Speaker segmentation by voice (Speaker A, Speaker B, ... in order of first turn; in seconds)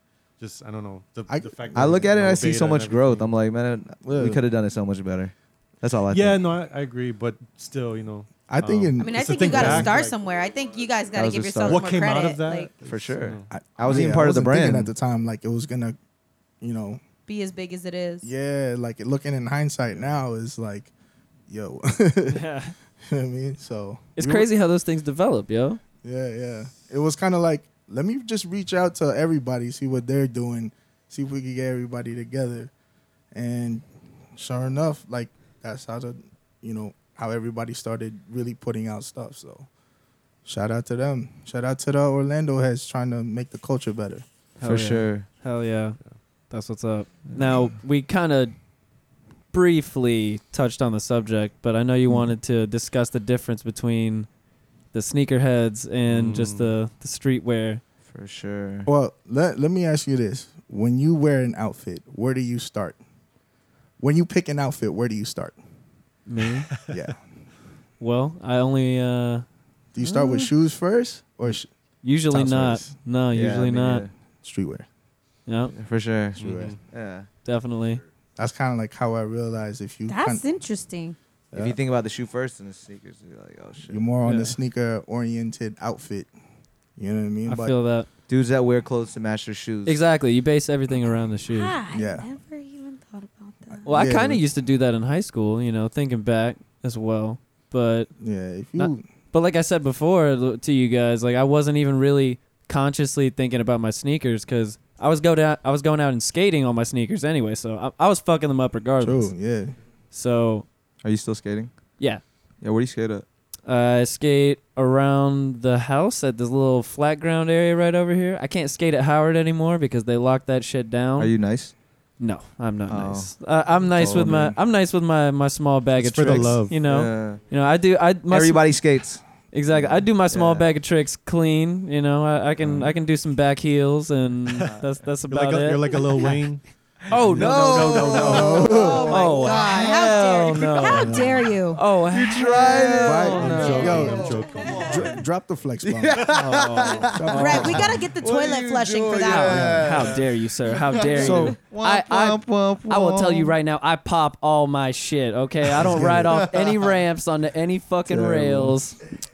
Speaker A: 0.4-3.3, 6.1-10.1, 11.7-14.1, 56.1-56.7, 76.4-76.8, 126.0-126.8, 135.3-138.7, 143.3-145.2, 146.2-147.2
Speaker B: 1.3-2.1, 4.0-4.4, 8.5-10.0, 13.5-16.0, 16.6-17.0, 18.2-20.9, 21.5-22.4, 23.0-24.5, 26.0-32.7, 33.3-39.7, 40.4-44.2, 58.8-63.0, 64.0-65.6, 66.9-67.2, 69.9-71.7, 72.3-72.9, 74.4-74.9, 76.4-76.7, 78.4-80.4, 81.5-81.8, 83.8-86.3, 87.0-87.7, 91.9-92.3, 93.8-94.4, 98.2-99.0, 109.0-109.8, 138.1-139.2, 143.0-146.3, 147.1-148.0, 155.8-156.4
Speaker C: 1.7-6.4, 11.1-11.8, 12.8-14.9, 44.6-45.3, 47.3-47.7, 58.1-58.9, 73.3-74.1, 75.7-77.3, 81.5-84.0, 88.3-90.0, 111.0-111.7, 112.6-113.2, 121.2-121.7, 122.9-123.3, 123.9-124.5, 126.8-127.4, 128.3-130.7, 132.6-132.9, 137.3-140.2, 141.0-141.3, 142.1-144.9, 145.8-153.5, 155.8-156.8, 158.1-158.8
Speaker D: 9.0-12.7, 17.2-18.3, 70.0-70.5, 80.1-81.2, 91.5-93.9, 138.6-141.8, 147.3-149.8
Speaker E: 22.3-22.7, 24.1-25.8, 44.6-46.0, 46.5-48.5, 49.5-54.3, 54.9-57.8, 66.3-66.7, 68.0-69.4, 72.0-74.0, 75.5-75.7, 77.4-78.0, 84.2-84.5, 87.5-88.1, 89.8-91.7, 93.8-98.1, 98.8-109.3, 110.1-110.7, 113.7-121.3, 122.2-128.8, 129.5-135.9, 137.1-138.5, 139.1-144.1, 146.4-147.7, 149.2-159.0